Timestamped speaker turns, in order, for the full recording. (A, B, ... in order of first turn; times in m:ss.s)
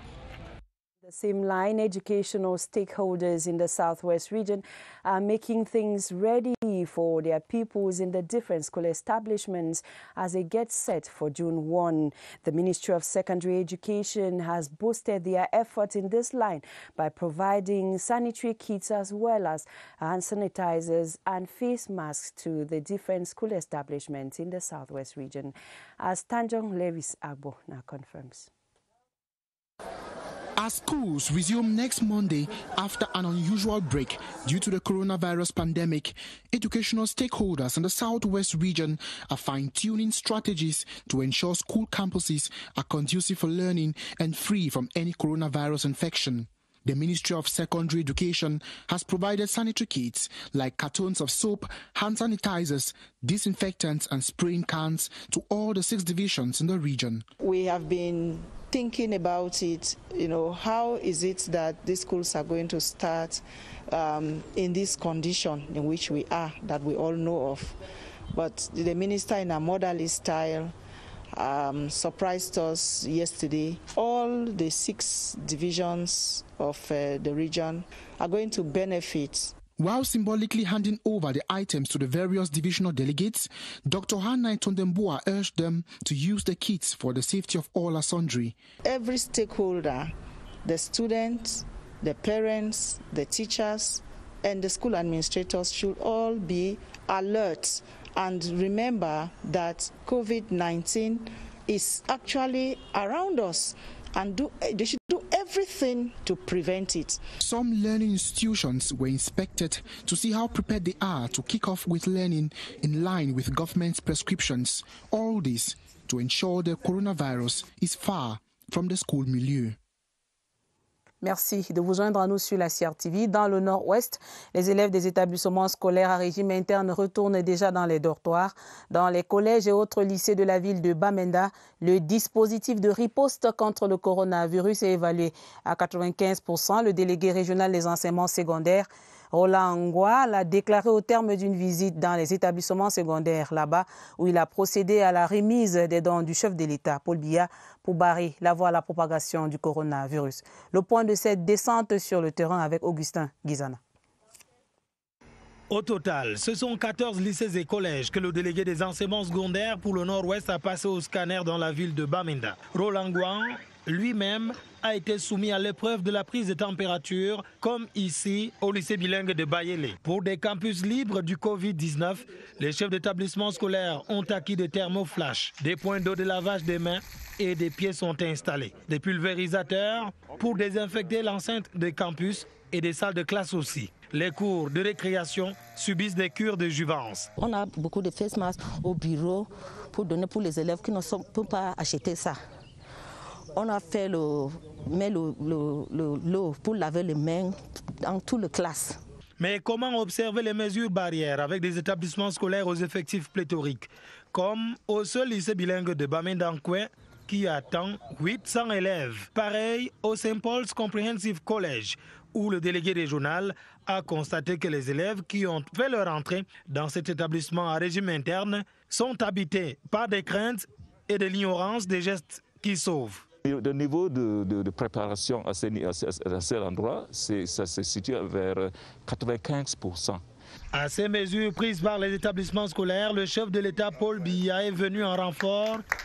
0:01.0-0:28.5 A
0:30.6-0:57.2 B
0:57.4-1:07.8 C
1:08.3-1:10.7 C
1:11.3-1:19.5 C
1:19.8-1:28.6 B
1:28.8-1:30.1 C
1:30.6-1:47.2 C
1:47.4-1:59.8 B
2:01.2-2:33.8 D
2:35.7-3:07.3 E
3:07.4-3:12.4 F
3:13.5-3:19.0 F
3:19.4-3:43.2 E
3:43.4-3:50.2 G
3:50.7-3:55.8 E